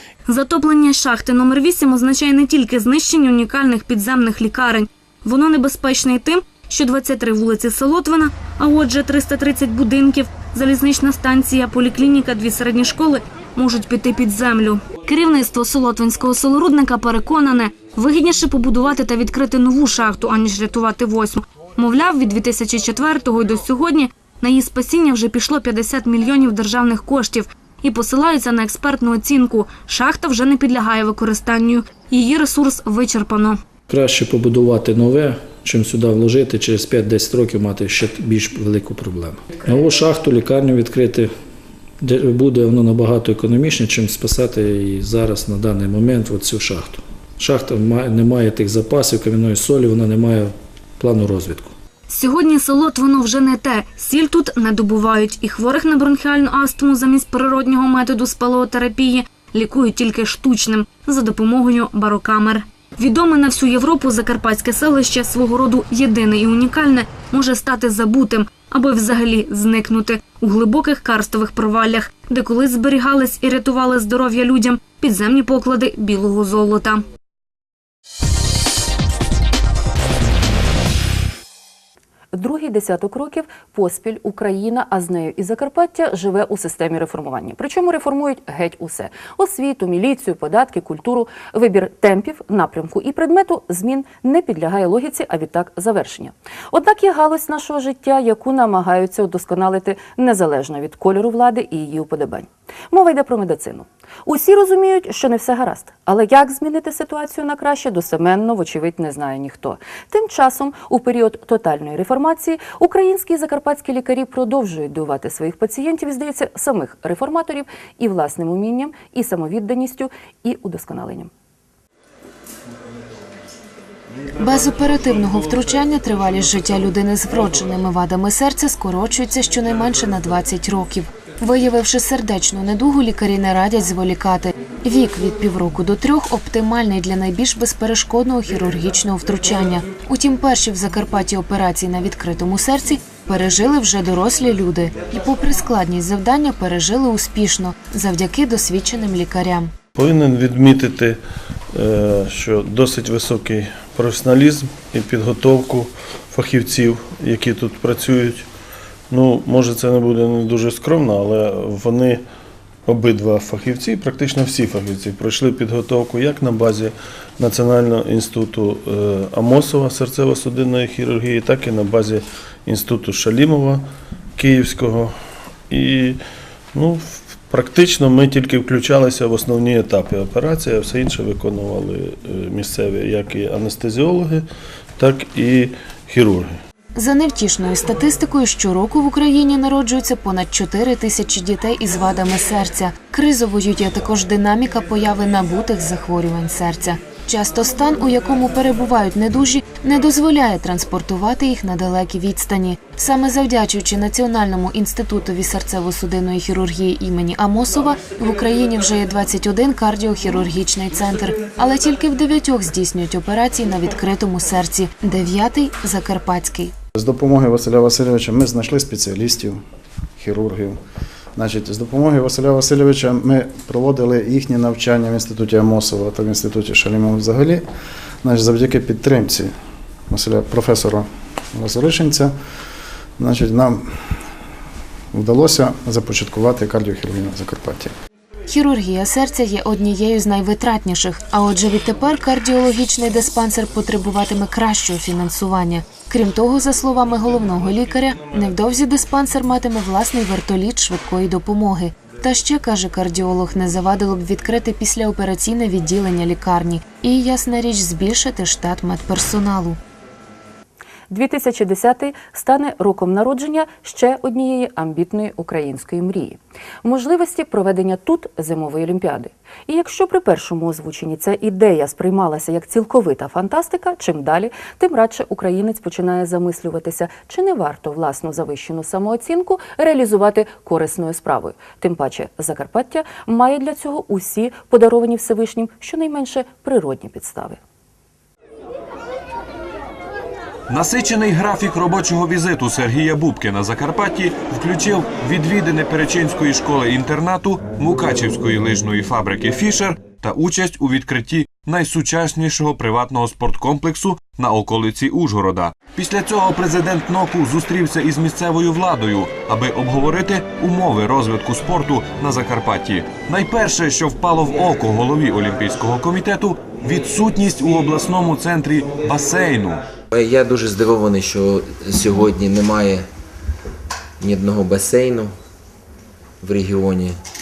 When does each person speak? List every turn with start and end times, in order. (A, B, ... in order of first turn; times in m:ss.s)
0:00.3-0:33.6 A
0:33.9-0:41.3 B
0:42.0-0:51.7 B
0:52.1-1:17.0 A
1:22.3-2:01.3 C
2:04.4-2:29.7 D
2:30.0-2:31.2 E
2:31.7-2:38.5 E
2:39.1-2:42.2 E
2:42.9-2:53.8 E
2:54.4-2:55.1 E
2:55.7-2:56.2 E
2:56.7-3:04.4 E
3:05.0-3:06.6 E
3:07.0-3:36.7 D
3:36.9-3:40.8 F
3:41.4-3:52.4 F
3:53.2-3:54.3 F
3:55.1-3:58.0 F
3:58.5-4:19.8 D
4:21.1-4:47.6 C
4:50.7-5:19.8 G
5:20.1-5:23.0 H
5:24.2-5:25.3 H
5:26.4-5:27.2 H